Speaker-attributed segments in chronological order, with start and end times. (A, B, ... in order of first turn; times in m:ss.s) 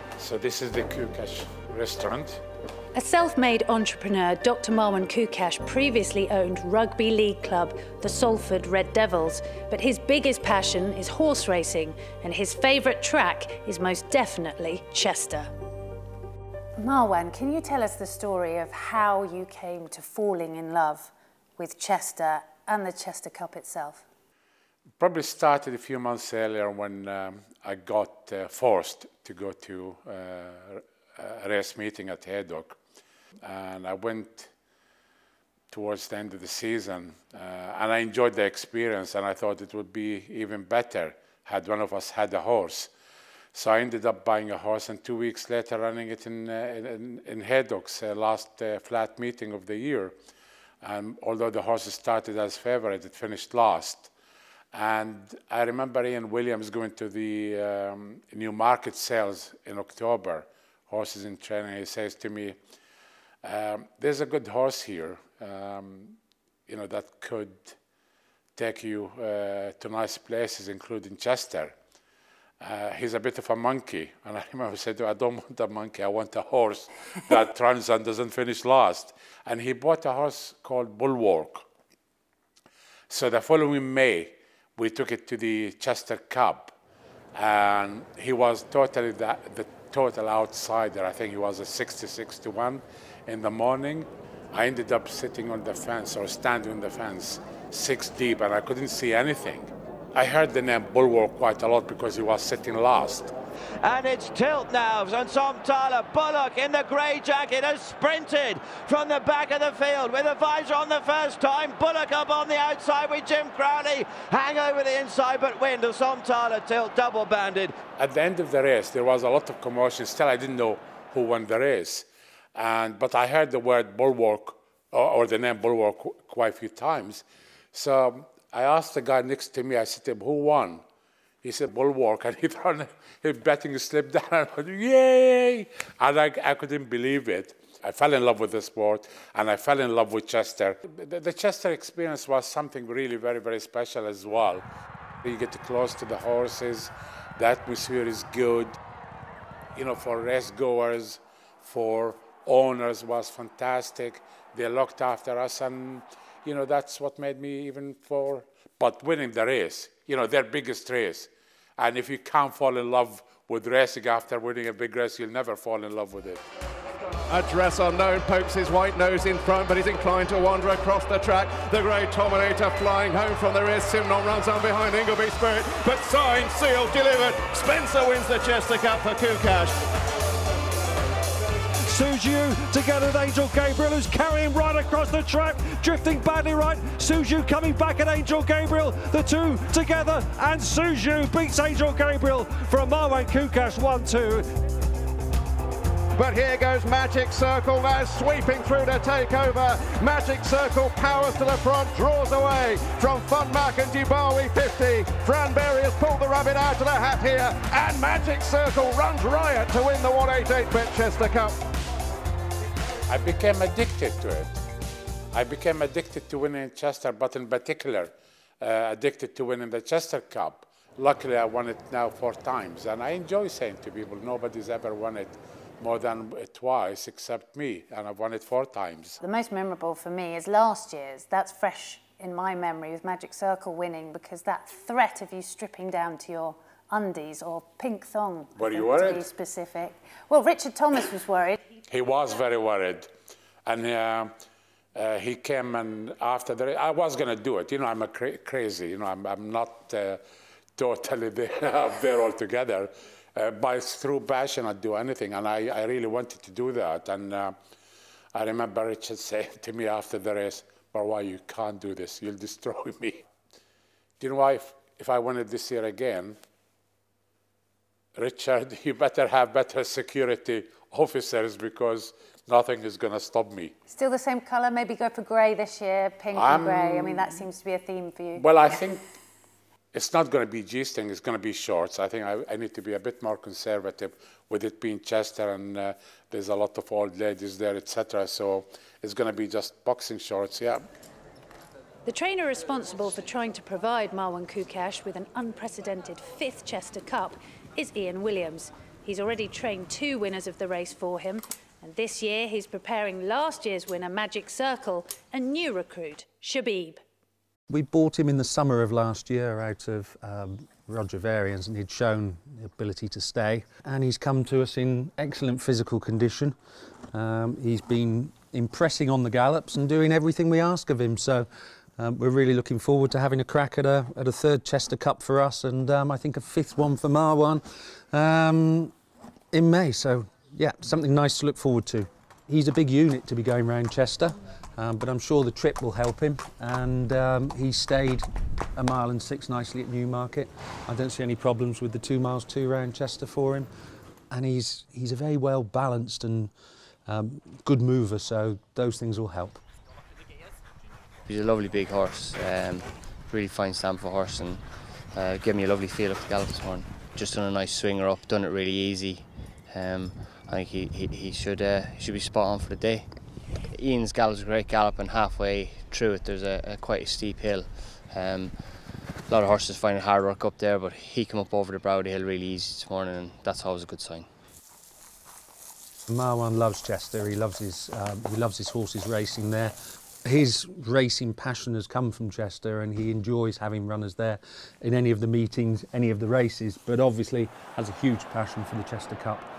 0:00.2-0:02.4 A
0:02.9-0:15.5 B
0:16.8-0:24.0 B
0:25.0-0:32.8 A
0:33.4-0:34.5 A
0:35.7-0:42.9 A
0:43.5-0:50.1 A
0:50.8-0:54.1 A
0:54.7-1:02.6 A
1:03.4-1:07.8 A
1:08.6-1:11.7 A
1:12.6-1:21.6 A
1:23.1-1:26.7 A
1:27.3-1:43.3 A
1:43.8-1:57.8 C
1:58.0-2:10.8 A
2:11.4-2:24.6 A
2:25.2-2:28.8 A
2:29.8-2:46.4 A
2:47.3-2:59.8 D
3:01.8-3:14.5 E
3:16.1-3:31.6 D
3:33.1-3:34.5 A
3:35.3-3:49.2 A
3:49.2-4:01.6 B
3:58.6-3:59.2 A
4:01.9-4:03.1 A
4:03.6-4:04.3 A
4:04.9-4:10.2 A
4:10.8-4:17.5 A
4:18.3-4:23.2 A
4:24.2-4:26.4 A
4:28.2-4:33.7 A
4:33.9-4:38.5 B
4:36.3-4:37.4 A
4:38.4-4:39.0 A
4:39.9-4:50.8 A
4:52.0-5:07.0 B
5:07.7-5:16.5 F
5:17.1-5:28.9 F
5:29.5-5:43.7 F
5:44.3-5:46.5 F
5:47.1-5:49.6 F
5:51.3-6:03.1 G
6:03.6-6:08.6 G
6:09.3-6:14.3 G
6:16.1-6:19.7 F
6:20.2-6:29.4 F